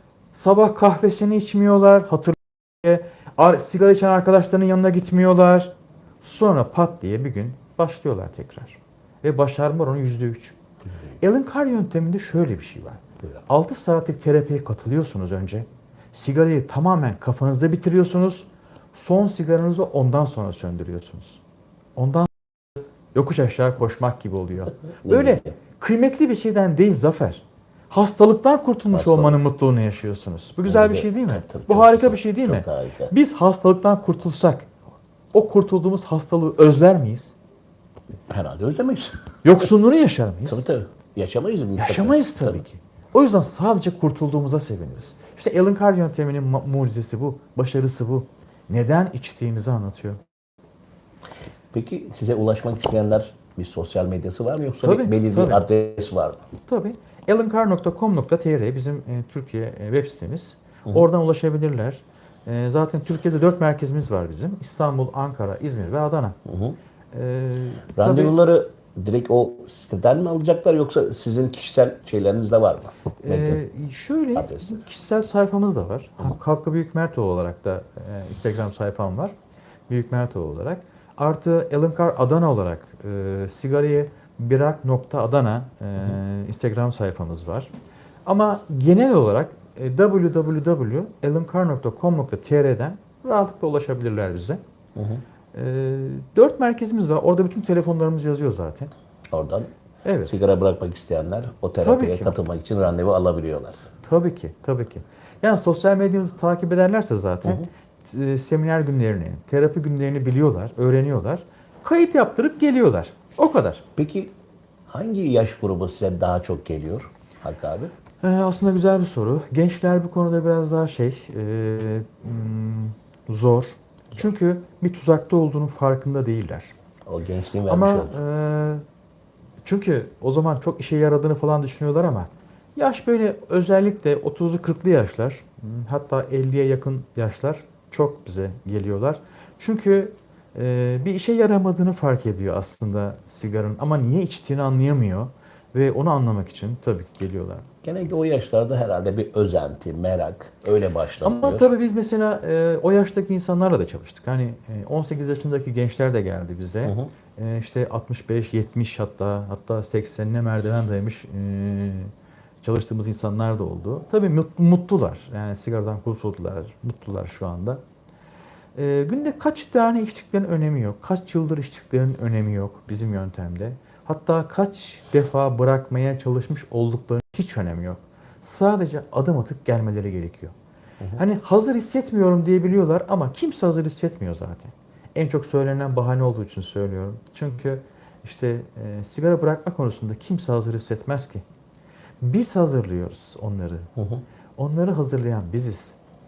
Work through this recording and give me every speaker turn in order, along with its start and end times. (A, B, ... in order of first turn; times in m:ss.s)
0:00.3-0:10.6 A
0:11.2-0:21.4 A
0:22.0-0:34.7 A
0:25.0-0:25.5 B
0:28.9-0:29.4 B
0:30.6-0:33.1 B
0:35.3-0:37.3 A
0:38.3-0:39.3 B
0:39.4-0:40.6 A
0:40.4-0:42.6 B
0:41.8-0:50.2 A
0:51.7-0:56.4 B
0:54.8-0:55.6 A
0:56.7-1:06.4 A
1:06.4-1:06.8 B
1:07.1-1:08.3 A
1:07.9-1:13.6 B
1:13.2-1:19.3 A
1:14.4-1:14.8 B
1:19.9-1:27.7 A
1:28.2-1:34.6 A
1:35.0-1:35.2 B
1:35.5-1:38.9 A
1:39.3-1:39.7 B
1:40.0-1:40.3 A
1:40.2-1:43.8 B
1:41.8-1:42.4 A
1:44.0-1:53.8 A
1:54.0-1:54.3 B
1:54.9-1:57.9 B
1:58.2-2:06.7 A
2:07.1-2:08.2 B
2:07.7-2:08.8 A
2:09.6-2:27.7 A
2:27.8-2:31.7 B
2:31.2-2:47.8 A
2:36.8-2:37.1 B
2:48.7-3:00.5 A
3:01.2-3:11.4 A
3:12.2-3:13.9 A
3:14.0-3:14.2 B
3:14.6-3:16.0 A